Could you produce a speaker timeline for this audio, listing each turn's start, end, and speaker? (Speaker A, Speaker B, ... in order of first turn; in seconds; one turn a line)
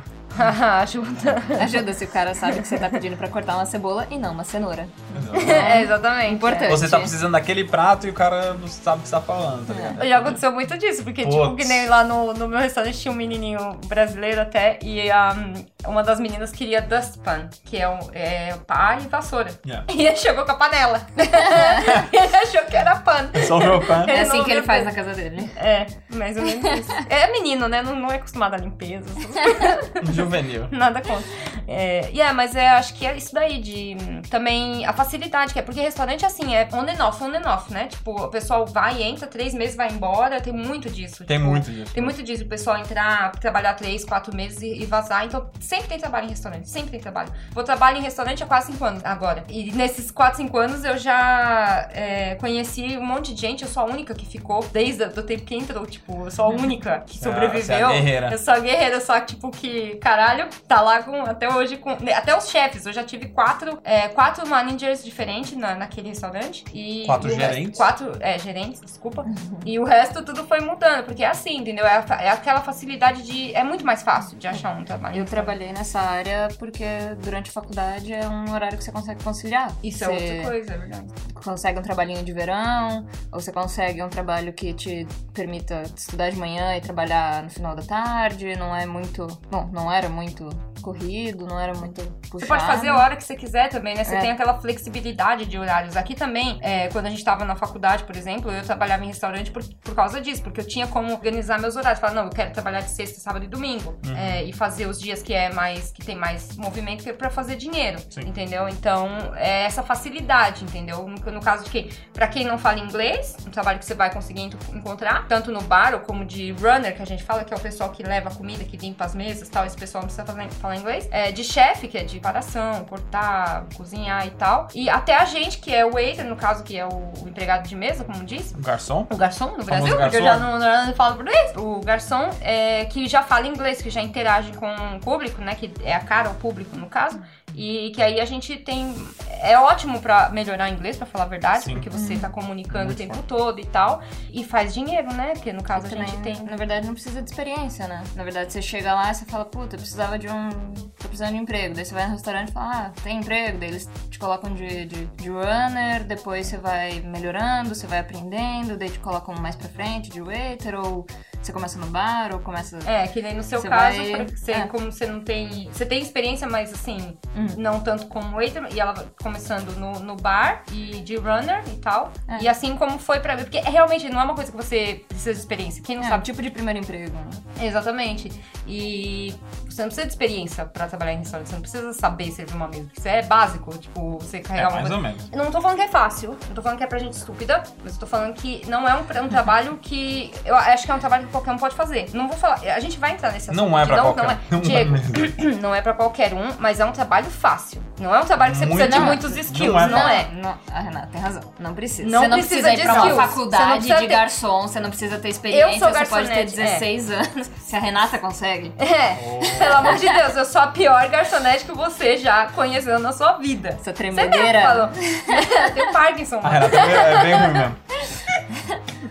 Speaker A: 0.3-1.8
Speaker B: 1.6-7.1
Speaker A: 2.5-3.0
Speaker C: 5.1-5.9
Speaker A: 5.3-6.8
Speaker C: 6.6-10.4
Speaker B: 9.7-10.0
Speaker A: 10.0-24.9
Speaker C: 11.2-11.8
Speaker C: 23.3-24.1
Speaker B: 24.1-25.6
Speaker A: 25.5-75.5
Speaker B: 26.6-26.9
Speaker C: 30.0-30.7
Speaker C: 41.3-42.1
Speaker C: 57.1-58.4
Speaker C: 67.0-67.9
Speaker B: 69.2-69.7
Speaker B: 75.1-80.5
Speaker A: 79.8-81.1
Speaker B: 81.3-93.0
Speaker A: 92.4-128.6
Speaker C: 104.0-104.4
Speaker C: 128.5-129.1
Speaker A: 129.1-146.5
Speaker C: 129.7-130.5
Speaker C: 141.6-141.8
Speaker B: 141.9-142.3
Speaker C: 142.7-143.2
Speaker B: 145.7-162.9
Speaker A: 162.8-176.2
Speaker B: 163.6-164.7
Speaker B: 167.3-167.6
Speaker B: 176.0-177.4
Speaker A: 177.6-200.3
Speaker C: 184.6-185.2
Speaker C: 193.5-195.3
Speaker C: 198.4-200.2
Speaker B: 198.7-208.8
Speaker A: 202.0-204.3
Speaker C: 202.9-203.2
Speaker A: 205.5-206.9
Speaker A: 208.8-217.6
Speaker C: 209.1-209.9
Speaker B: 209.6-210.2
Speaker B: 213.8-215.9
Speaker C: 216.4-217.8
Speaker B: 218.5-218.8